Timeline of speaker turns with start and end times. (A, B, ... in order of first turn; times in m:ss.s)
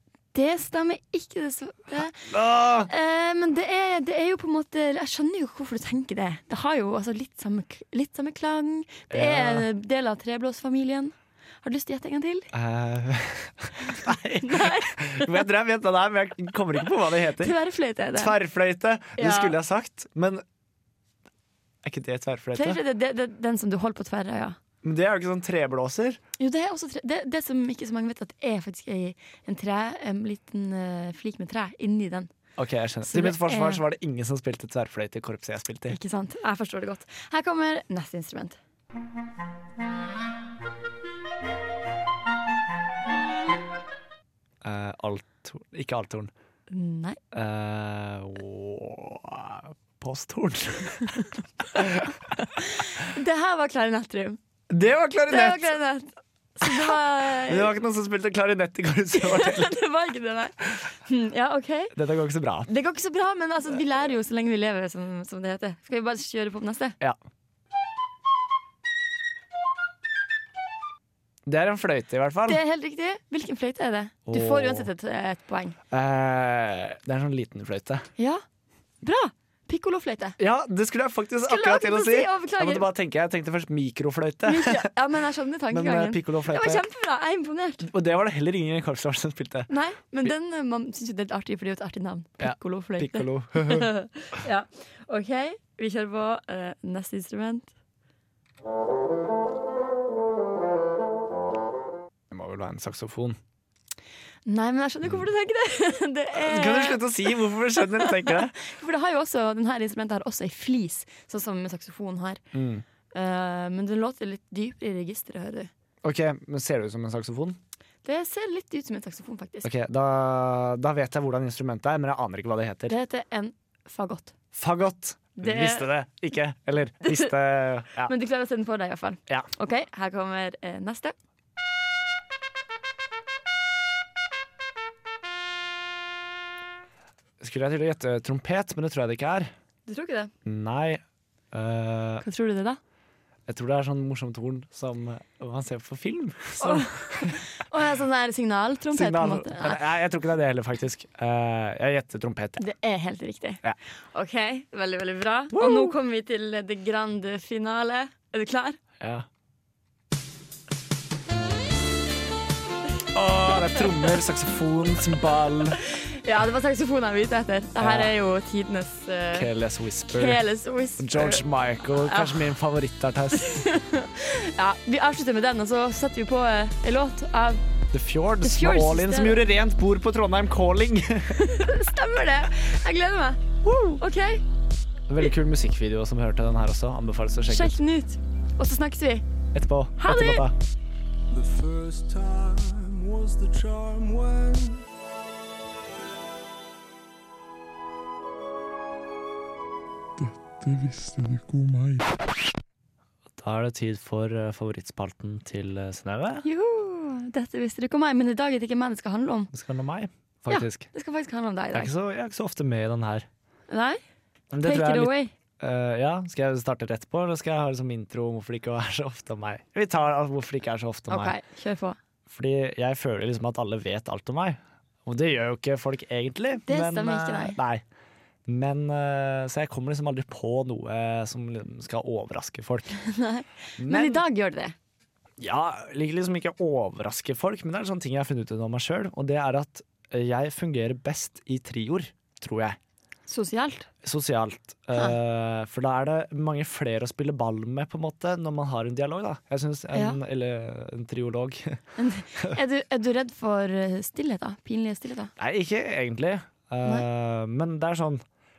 0:00.3-0:02.3 A
0:02.2-0:02.9 B
0:02.8-0:12.5 A
0:09.1-0:09.7 B
0:12.5-0:17.6 B
0:13.9-0:15.4 A
0:17.4-0:18.4 A
0:18.1-0:20.4 B
0:19.2-0:19.6 A
0:21.8-0:22.8 B
0:22.6-0:24.6 A
0:24.8-0:26.2 B
0:26.4-0:32.3 A
0:32.6-0:36.0 B
0:33.0-0:33.8 A
0:35.9-0:38.6 A
0:44.6-0:46.3 B
0:46.7-0:47.2 A
0:47.3-0:52.3 B
0:52.6-0:54.4 A
0:54.7-0:55.8 B
0:55.3-0:57.7 A
0:56.6-0:59.8 B
0:59.1-1:01.9 A
1:01.9-1:02.7 B
1:02.7-1:07.0 A
1:11.5-1:12.6 B
1:12.5-1:15.8 A
1:14.3-1:14.9 B
1:15.9-1:18.1 B
1:18.2-1:18.4 A
1:19.0-1:20.4 A
1:20.4-1:24.9 B
1:21.4-1:22.9 A
1:24.4-1:27.9 A
1:25.7-1:26.8 B
1:27.8-1:29.7 B
1:29.7-1:37.7 A
1:32.4-1:33.9 B
1:42.3-1:43.4 B
1:44.5-1:52.4 A
1:46.4-1:48.6 B
1:52.5-1:52.8 B
1:53.1-1:55.7 A
1:56.0-1:57.6 B
1:58.0-1:59.7 A
1:59.6-2:03.0 B
2:02.9-2:04.3 A
2:04.5-2:08.1 B
2:05.4-2:05.9 A
2:07.0-2:07.3 A
2:08.0-2:11.2 A
2:17.4-2:19.5 B
2:19.9-2:20.3 A
2:20.4-2:22.2 B
2:22.2-2:22.8 A
2:23.5-2:27.4 B
2:26.6-2:29.8 A
2:28.9-2:32.6 B
2:32.6-2:38.8 A
2:35.5-2:36.0 B
2:39.0-2:39.3 B
2:43.1-2:45.8 B
2:45.8-2:49.5 A
2:47.8-2:48.2 B
2:49.3-2:50.4 B
2:50.1-2:51.4 A
2:51.0-2:53.6 B
2:52.0-2:52.5 A
2:53.3-2:57.6 A
2:57.9-3:01.5 B
2:58.4-2:59.4 A
3:01.4-3:03.4 A
3:03.6-3:04.0 B
3:04.0-3:04.4 A
3:05.1-3:07.8 B
3:07.5-3:09.2 A
3:09.5-3:10.5 B
3:10.0-3:10.5 A
3:11.3-3:14.9 C
3:20.2-3:22.1 C
3:23.4-3:26.4 B
3:26.4-3:29.5 A
3:29.5-3:30.9 B
3:30.5-3:31.9 A
3:31.7-3:33.3 B
3:33.7-3:34.0 A
3:34.5-3:41.4 B
3:34.6-3:35.3 A
3:41.1-3:42.0 A
3:42.3-3:47.8 B
3:46.7-3:47.6 A
3:48.5-3:53.0 B
3:53.0-3:54.8 A
3:53.8-3:54.2 B
3:55.4-4:02.8 B
4:03.3-4:03.9 A
4:04.0-4:11.8 B
4:09.9-4:10.2 A
4:12.0-4:15.3 A
4:15.4-4:18.2 B